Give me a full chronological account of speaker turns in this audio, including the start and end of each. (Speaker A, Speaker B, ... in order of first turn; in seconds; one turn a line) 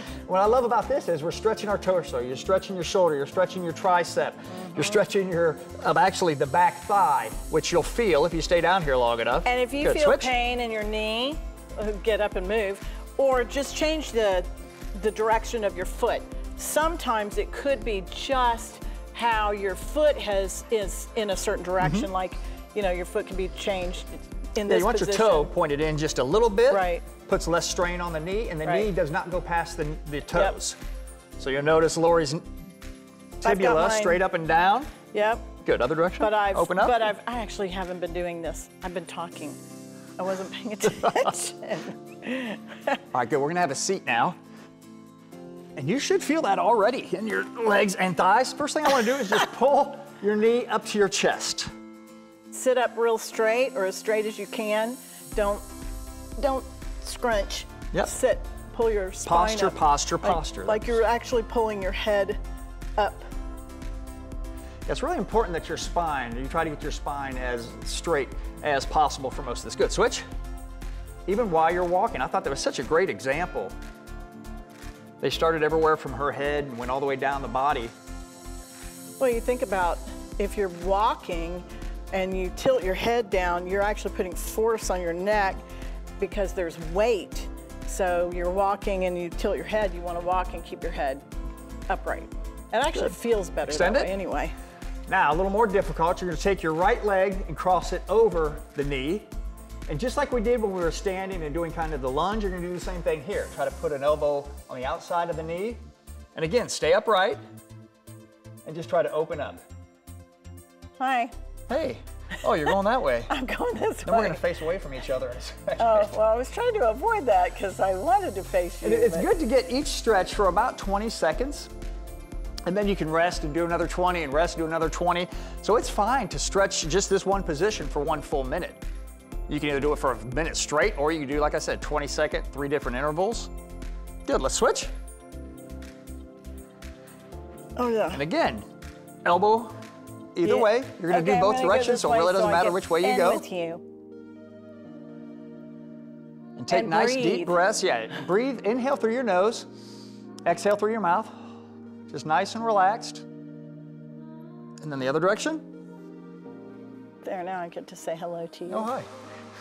Speaker A: 0.2-10.3
Speaker B: 4.5-5.0
Speaker B: 9.4-25.5
Speaker A: 21.8-22.1
Speaker A: 24.6-30.8
Speaker B: 26.7-27.0
Speaker A: 31.4-32.5
Speaker A: 33.4-34.9
Speaker B: 33.4-34.2
Speaker B: 35.1-35.5
Speaker A: 35.6-37.0
Speaker B: 36.2-39.6
Speaker B: 40.2-43.0
Speaker A: 40.8-41.3
Speaker A: 43.1-44.4
Speaker A: 45.8-51.7
Speaker B: 52.5-55.6
Speaker B: 56.4-62.4
Speaker A: 59.2-61.0
Speaker B: 63.0-63.3
Speaker A: 64.8-70.2
Speaker A: 71.3-73.7
Speaker A: 75.2-77.9
Speaker B: 79.2-85.6
Speaker B: 86.2-91.2
Speaker B: 91.9-94.5
Speaker A: 92.9-94.1
Speaker A: 95.1-99.3
Speaker A: 99.9-105.8
Speaker A: 106.3-107.4
Speaker A: 108.6-109.6
Speaker B: 111.0-111.3
Speaker A: 111.7-113.3
Speaker B: 113.3-114.4
Speaker A: 114.0-116.1
Speaker B: 115.8-119.3
Speaker A: 118.8-121.7
Speaker A: 122.6-128.8
Speaker A: 129.5-133.5
Speaker A: 134.2-134.9
Speaker B: 137.8-138.2
Speaker A: 138.1-138.7
Speaker A: 139.2-139.8
Speaker A: 140.3-143.4
Speaker B: 140.4-143.8
Speaker A: 146.6-149.7
Speaker B: 146.7-147.6
Speaker A: 150.4-151.5
Speaker A: 152.1-153.2
Speaker A: 154.8-155.7
Speaker B: 157.2-158.9
Speaker A: 158.7-159.1